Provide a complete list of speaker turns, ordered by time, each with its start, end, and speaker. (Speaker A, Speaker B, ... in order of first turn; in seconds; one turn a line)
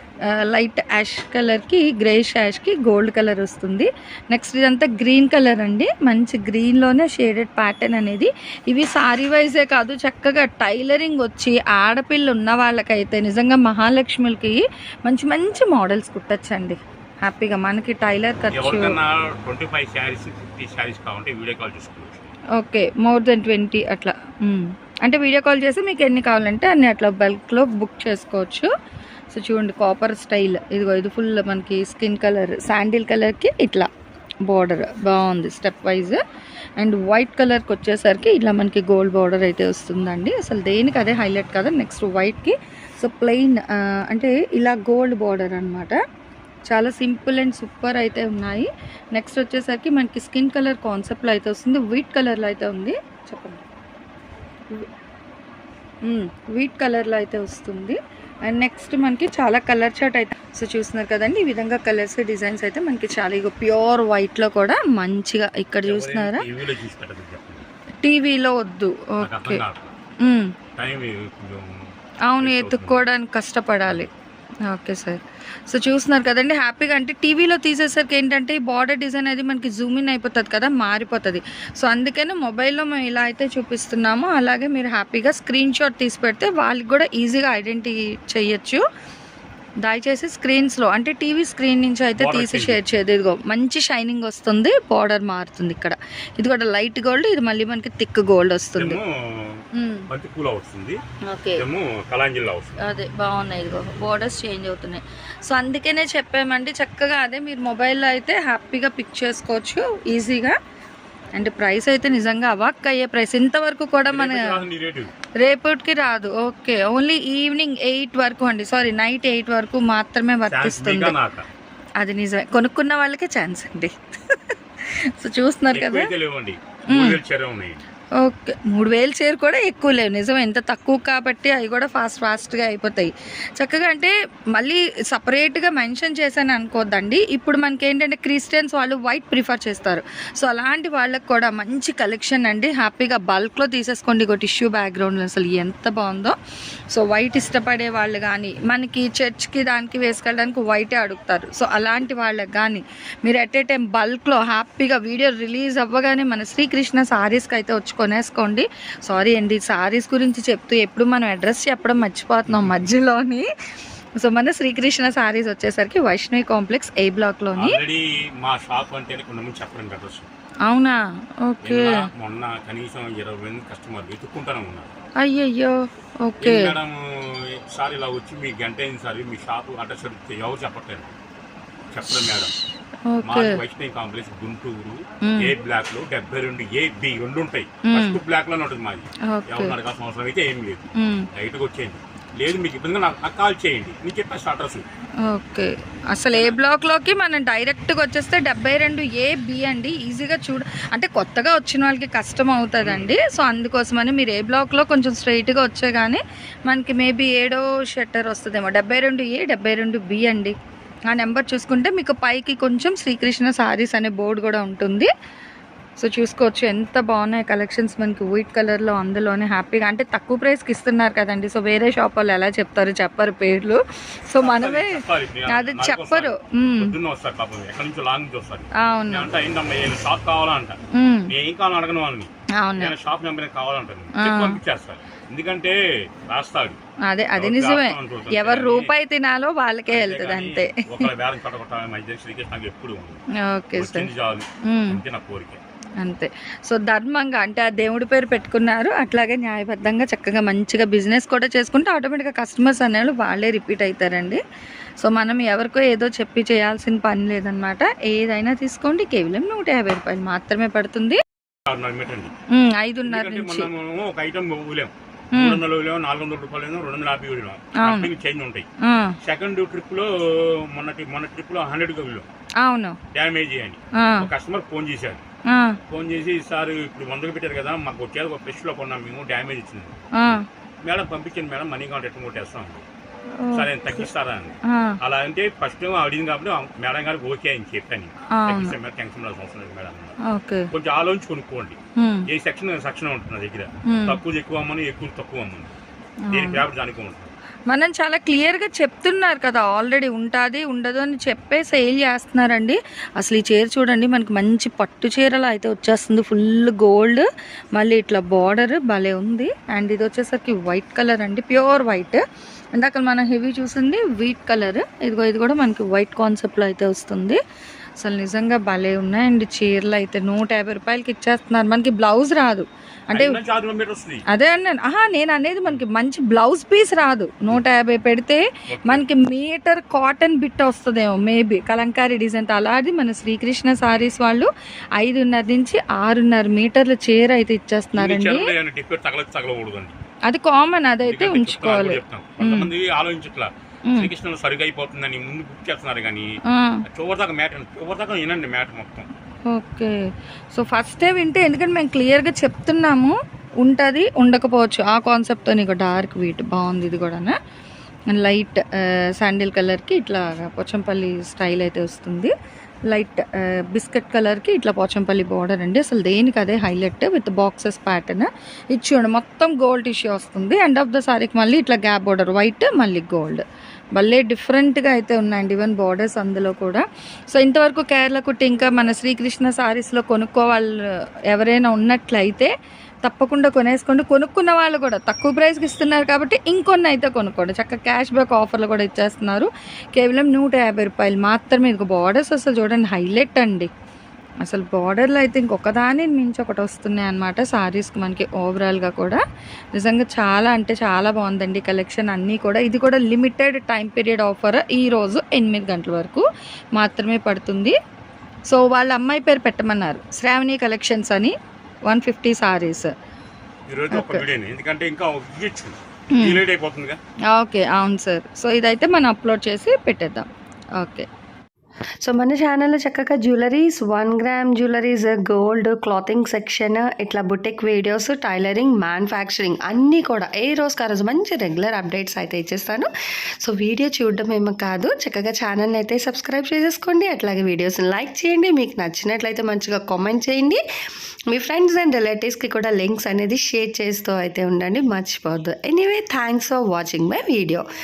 Speaker A: 0.3-19.0
Speaker B: 18.5-22.3
Speaker A: 22.6-28.7
Speaker A: 29.3-33.9
Speaker A: 34.4-36.2
Speaker A: 36.8-46.0
Speaker A: 46.7-53.6
Speaker A: 56.0-66.5
Speaker B: 65.8-67.7
Speaker A: 68.0-69.6
Speaker B: 69.2-69.9
Speaker A: 70.2-70.5
Speaker B: 70.8-71.7
Speaker A: 72.3-74.1
Speaker B: 72.4-73.0
Speaker B: 73.9-74.1
Speaker A: 74.7-88.8
Speaker A: 89.8-99.0
Speaker B: 92.2-93.0
Speaker B: 98.8-101.0
Speaker A: 99.7-100.1
Speaker A: 101.3-101.6
Speaker B: 101.6-102.8
Speaker A: 102.8-110.5
Speaker A: 111.3-114.6
Speaker B: 114.1-115.1
Speaker A: 115.4-121.2
Speaker B: 120.5-121.5
Speaker A: 122.0-126.1
Speaker B: 125.7-127.8
Speaker A: 126.9-127.2
Speaker A: 128.2-146.3
Speaker A: 146.9-163.5
Speaker B: 162.5-162.9
Speaker A: 164.2-167.8
Speaker B: 167.6-170.3
Speaker A: 170.7-172.1
Speaker B: 171.6-174.9
Speaker A: 175.2-176.7
Speaker B: 176.4-177.0
Speaker B: 177.6-181.1
Speaker B: 181.9-182.6
Speaker A: 182.1-182.5
Speaker A: 183.1-183.6
Speaker B: 183.2-194.9
Speaker A: 185.2-185.5
Speaker A: 187.9-188.2
Speaker A: 189.3-189.8
Speaker A: 191.0-191.3
Speaker A: 195.3-210.5
Speaker B: 196.3-196.6
Speaker B: 202.8-203.2
Speaker A: 211.1-215.1
Speaker A: 216.0-226.9
Speaker B: 224.4-230.8
Speaker A: 228.8-229.3
Speaker A: 230.9-231.3
Speaker B: 231.3-236.8
Speaker A: 232.6-233.0
Speaker A: 234.2-234.6
Speaker A: 237.1-241.1
Speaker B: 237.4-238.9
Speaker B: 239.9-243.2
Speaker A: 243.4-244.1
Speaker B: 243.8-245.6
Speaker A: 244.7-245.0
Speaker A: 246.0-254.4
Speaker A: 255.0-261.2
Speaker B: 261.7-262.3
Speaker A: 262.5-263.7
Speaker B: 263.1-268.7
Speaker A: 265.4-265.6
Speaker A: 267.8-268.1
Speaker A: 268.8-269.2
Speaker B: 269.2-270.1
Speaker B: 270.7-272.3
Speaker A: 272.6-273.0
Speaker B: 273.1-275.2
Speaker A: 274.0-274.3
Speaker A: 275.5-275.8
Speaker B: 275.9-282.9
Speaker A: 280.2-280.4
Speaker A: 283.4-284.1
Speaker B: 283.5-290.1
Speaker A: 284.7-285.0
Speaker A: 288.4-288.8
Speaker A: 290.3-290.7
Speaker B: 290.7-295.8
Speaker A: 292.0-292.3
Speaker A: 293.9-294.2
Speaker A: 296.3-296.6
Speaker B: 296.3-297.3
Speaker A: 297.7-312.2
Speaker A: 312.8-317.4
Speaker A: 318.0-323.4
Speaker B: 323.1-324.2
Speaker A: 324.3-338.5
Speaker B: 328.7-329.1
Speaker B: 337.9-340.0
Speaker A: 340.3-342.7
Speaker B: 341.0-346.3
Speaker A: 346.5-346.8
Speaker B: 346.9-349.1
Speaker A: 349.5-350.0
Speaker A: 350.5-357.4
Speaker A: 358.1-362.3
Speaker A: 362.9-373.4
Speaker A: 374.0-380.8
Speaker A: 381.3-382.5
Speaker A: 383.0-393.7
Speaker A: 394.4-399.2
Speaker A: 399.8-406.2
Speaker A: 406.8-407.8
Speaker A: 408.5-411.4
Speaker A: 411.9-412.9
Speaker B: 413.7-417.0
Speaker A: 413.9-414.3
Speaker A: 416.1-416.4
Speaker A: 417.3-420.3
Speaker A: 420.8-421.1
Speaker C: 422.0-432.9
Speaker C: 433.4-440.6
Speaker C: 441.3-447.6